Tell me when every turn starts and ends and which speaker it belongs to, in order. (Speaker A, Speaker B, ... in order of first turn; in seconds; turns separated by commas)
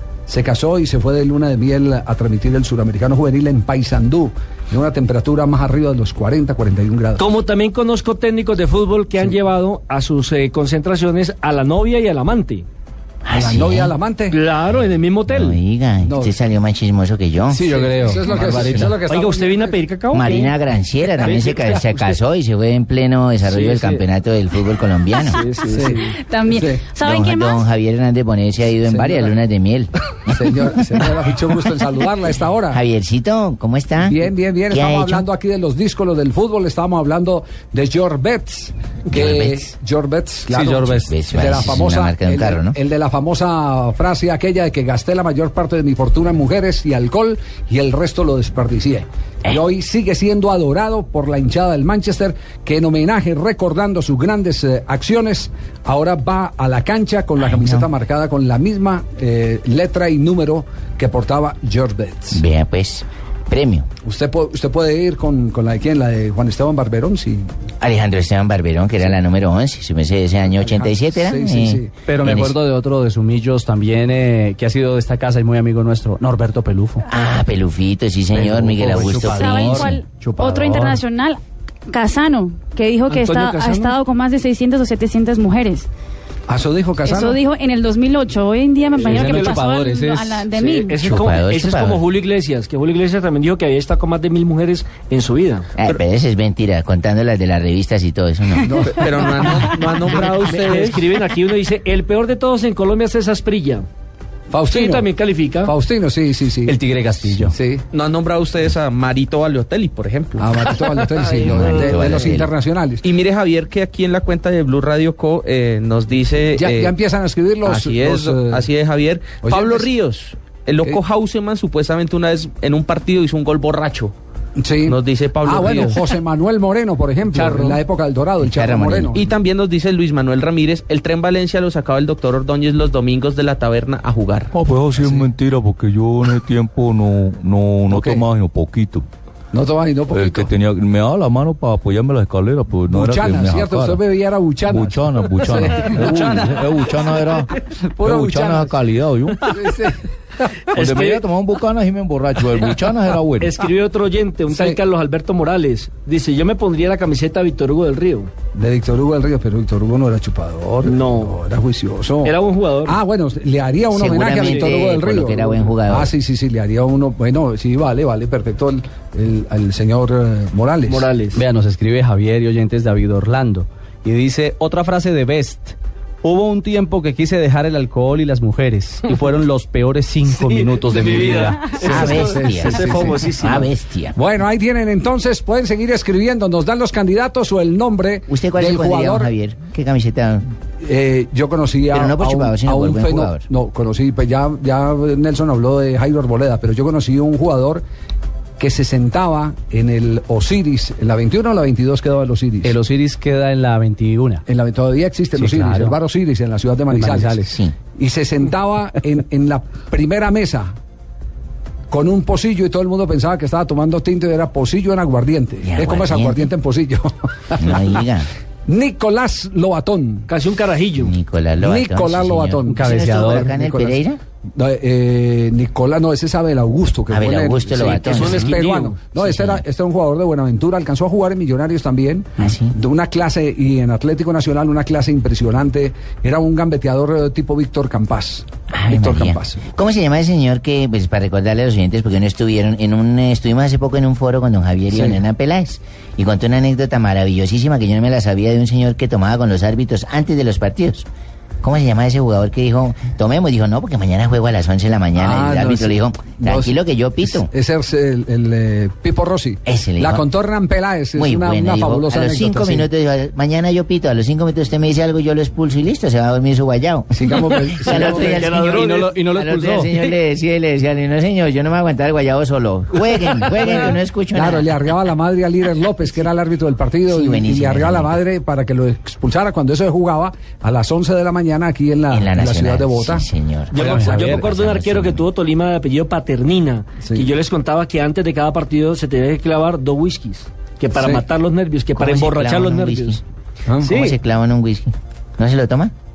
Speaker A: 0.3-7.3, Speaker B: 7.2-12.7, Speaker C: 13.2-14.0, Speaker A: 13.3-14.4, Speaker B: 14.3-15.6, Speaker C: 15.3-17.7, Speaker A: 16.0-16.4, Speaker D: 17.5-19.0, Speaker A: 17.7-19.8, Speaker C: 18.6-18.9, Speaker B: 19.1-20.6, Speaker C: 20.1-25.4, Speaker B: 21.2-22.2, Speaker B: 23.5-24.1, Speaker B: 25.3-26.1, Speaker A: 25.7-26.8, Speaker E: 26.2-27.7, Speaker C: 27.0-31.0, Speaker A: 28.8-29.4, Speaker A: 30.3-32.8, Speaker C: 32.7-35.3, Speaker A: 34.0-62.4, Speaker C: 39.1-39.7, Speaker D: 40.5-41.1, Speaker C: 41.1-42.8, Speaker C: 57.4-57.9, Speaker C: 62.3-63.9, Speaker A: 64.0-67.5, Speaker C: 67.8-72.6, Speaker A: 70.6-71.9, Speaker D: 72.1-77.1, Speaker C: 77.1-80.0, Speaker D: 78.3-81.0, Speaker A: 78.9-79.2, Speaker E: 79.3-85.9, Speaker B: 83.1-84.0, Speaker A: 86.5-87.4, Speaker E: 87.0-91.2, Speaker B: 89.0-89.6, Speaker D: 89.0-90.5, Speaker B: 90.5-95.7, Speaker C: 91.0-92.0, Speaker C: 95.8-98.7, Speaker A: 98.6-99.7, Speaker F: 98.8-101.0, Speaker B: 100.0-103.9, Speaker A: 104.5-105.1, Speaker B: 104.7-105.7, Speaker A: 105.7-106.8, Speaker D: 106.7-107.5, Speaker A: 107.4-107.8, Speaker F: 107.9-110.5, Speaker A: 110.4-113.1, Speaker B: 111.2-111.5, Speaker F: 111.3-112.2, Speaker C: 111.5-112.5, Speaker F: 113.0-117.0, Speaker A: 116.5-118.7, Speaker F: 117.6-124.1, Speaker A: 119.4-119.9, Speaker A: 124.6-129.2, Speaker F: 124.9-126.0, Speaker C: 128.4-129.2, Speaker F: 129.1-134.5, Speaker G: 134.5-139.1, Speaker A: 135.0-135.3, Speaker A: 137.9-138.3, Speaker A: 139.5-140.5, Speaker G: 140.1-144.0, Speaker A: 142.9-146.4, Speaker G: 144.7-149.7, Speaker D: 145.9-147.3, Speaker C: 146.8-147.3, Speaker A: 148.0-148.8, Speaker C: 148.4-148.8, Speaker A: 149.5-149.9, Speaker B: 150.7-151.2, Speaker C: 150.8-151.9, Speaker G: 151.8-153.6, Speaker C: 152.5-153.2, Speaker B: 153.4-158.3, Speaker A: 154.5-154.8, Speaker A: 158.6-171.1, Speaker B: 160.8-161.4, Speaker B: 162.2-163.0, Speaker C: 163.9-166.1, Speaker B: 164.1-164.8, Speaker B: 170.9-171.4, Speaker D: 171.3-182.1, Speaker B: 180.2-183.7, Speaker C: 181.8-184.2, Speaker A: 181.8-189.3, Speaker C: 188.3-190.5, Speaker A: 190.8-197.8, Speaker C: 191.9-193.4, Speaker A: 198.6-202.8, Speaker D: 202.6-204.4, Speaker A: 204.5-207.4, Speaker D: 205.3-206.0, Speaker D: 206.9-207.5, Speaker C: 207.5-207.7, Speaker A: 207.9-210.8, Speaker A: 211.9-217.9, Speaker C: 215.7-216.5, Speaker C: 217.6-218.3, Speaker A: 218.7-220.3, Speaker B: 220.3-221.2, Speaker C: 221.0-224.2, Speaker A: 221.6-223.4, Speaker D: 222.7-224.0, Speaker A: 224.6-239.7, Speaker C: 227.1-228.6, Speaker B: 228.1-229.1, Speaker C: 229.1-229.6, Speaker C: 232.4-232.7, Speaker C: 238.7-251.1, Speaker A: 244.9-245.2, Speaker C: 251.6-257.5, Speaker A: 255.2-262.9, Speaker C: 259.6-260.2, Speaker C: 261.2-267.1, Speaker A: 267.1-268.6, Speaker C: 267.6-274.7, Speaker D: 268.0-270.0, Speaker B: 268.1-269.2, Speaker A: 273.7-283.3, Speaker C: 277.1-278.2, Speaker C: 282.1-283.7, Speaker B: 283.7-293.2, Speaker D: 283.7-284.4, Speaker A: 284.0-284.4, Speaker C: 284.4-285.2, Speaker A: 290.9-291.2, Speaker C: 291.9-293.2, Speaker A: 293.7-294.1, Speaker B: 293.8-294.1, Speaker C: 293.9-295.9